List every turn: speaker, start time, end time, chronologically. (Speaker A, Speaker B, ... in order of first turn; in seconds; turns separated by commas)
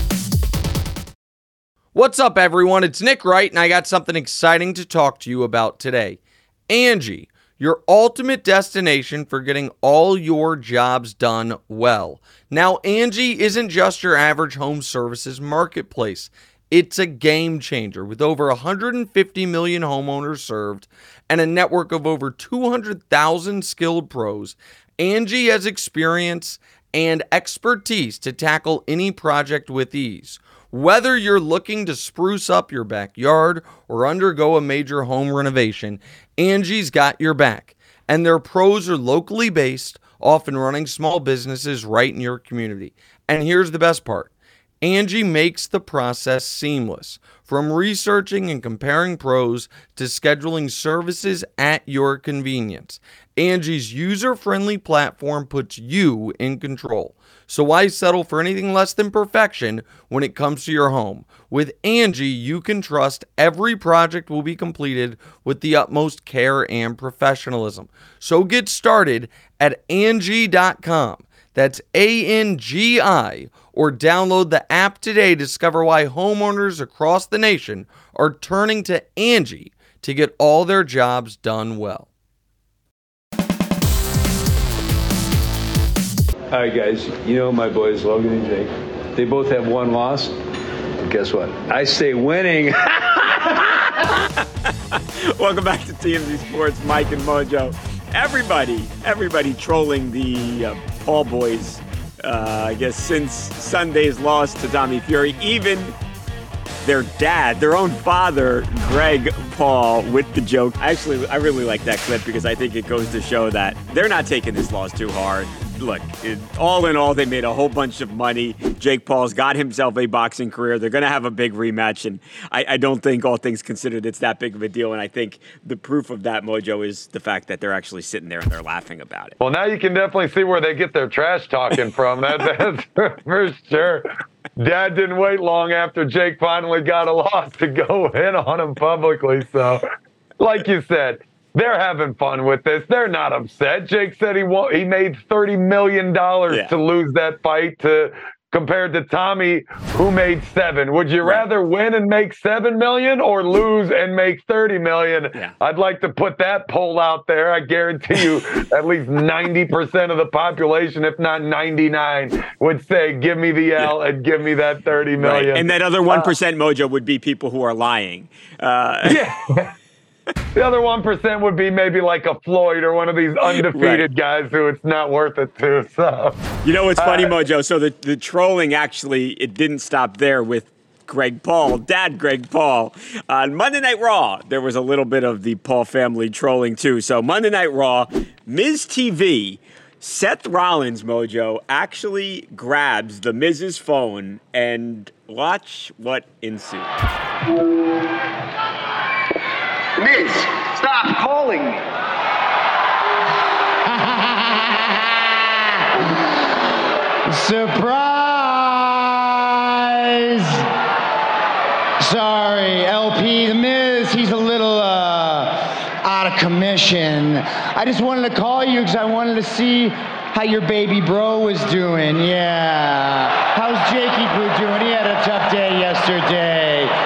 Speaker A: 1.9-82.1, Speaker B: 86.5-90.3, Speaker B: 91.0-93.7, Speaker C: 93.7-105.9, Speaker C: 106.8-129.4, Speaker D: 129.4-134.1, Speaker D: 134.6-139.8, Speaker D: 140.4-166.3, Speaker C: 165.2-169.2, Speaker D: 169.0-169.7, Speaker D: 170.5-176.4, Speaker C: 173.5-174.1, Speaker C: 176.6-196.9, Speaker D: 177.0-177.3, Speaker E: 200.0-201.8, Speaker E: 203.8-204.9, Speaker E: 207.3-210.6, Speaker E: 212.0-226.9